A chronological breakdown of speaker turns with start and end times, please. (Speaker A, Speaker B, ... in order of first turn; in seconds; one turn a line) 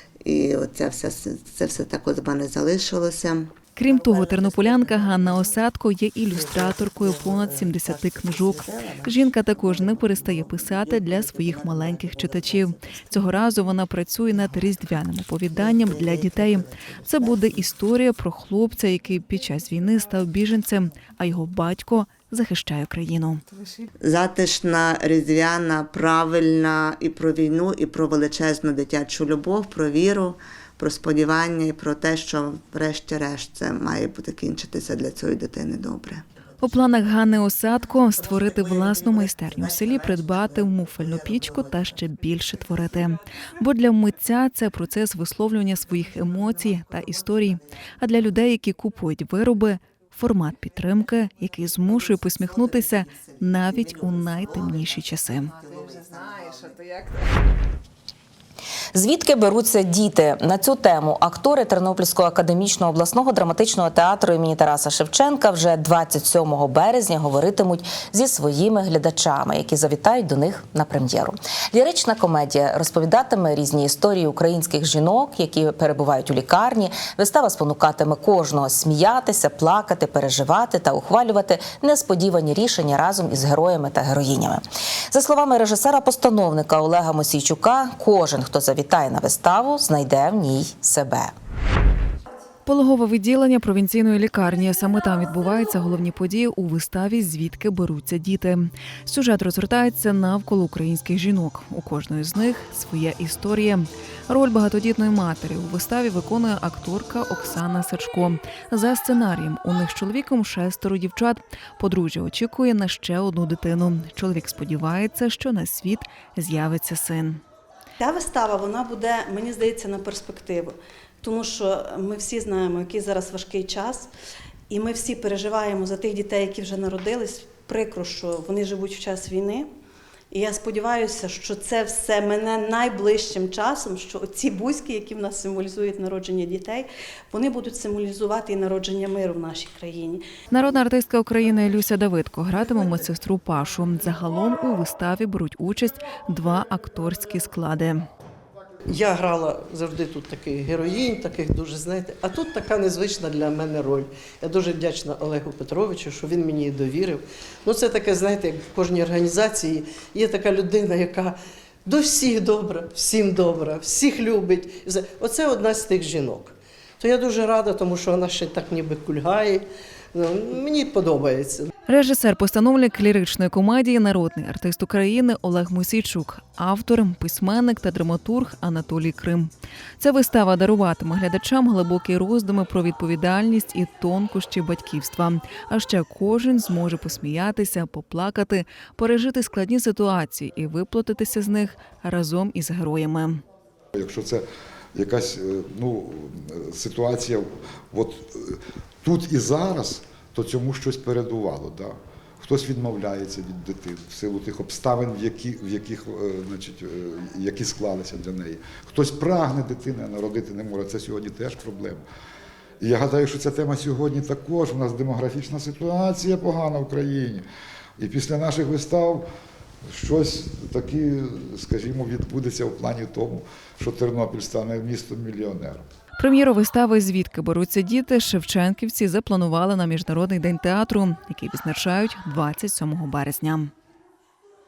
Speaker A: 0.2-3.5
Speaker B: 3.8-23.4
Speaker A: 24.0-36.2
Speaker B: 36.6-55.5
Speaker A: 39.4-39.9
Speaker A: 53.0-53.6
Speaker A: 54.5-54.7
Speaker A: 55.6-56.8
Speaker C: 58.9-91.3
Speaker B: 92.7-117.4
Speaker D: 118.0-124.1
Speaker D: 124.7-129.7
Speaker D: 130.3-140.2
Speaker B: 140.5-148.1
Speaker E: 148.9-171.7
Speaker B: 171.9-193.4
Speaker F: 193.9-212.0
Speaker F: 212.8-217.4
Speaker F: 218.0-219.2
Speaker F: 219.9-225.8
Speaker B: 226.2-233.7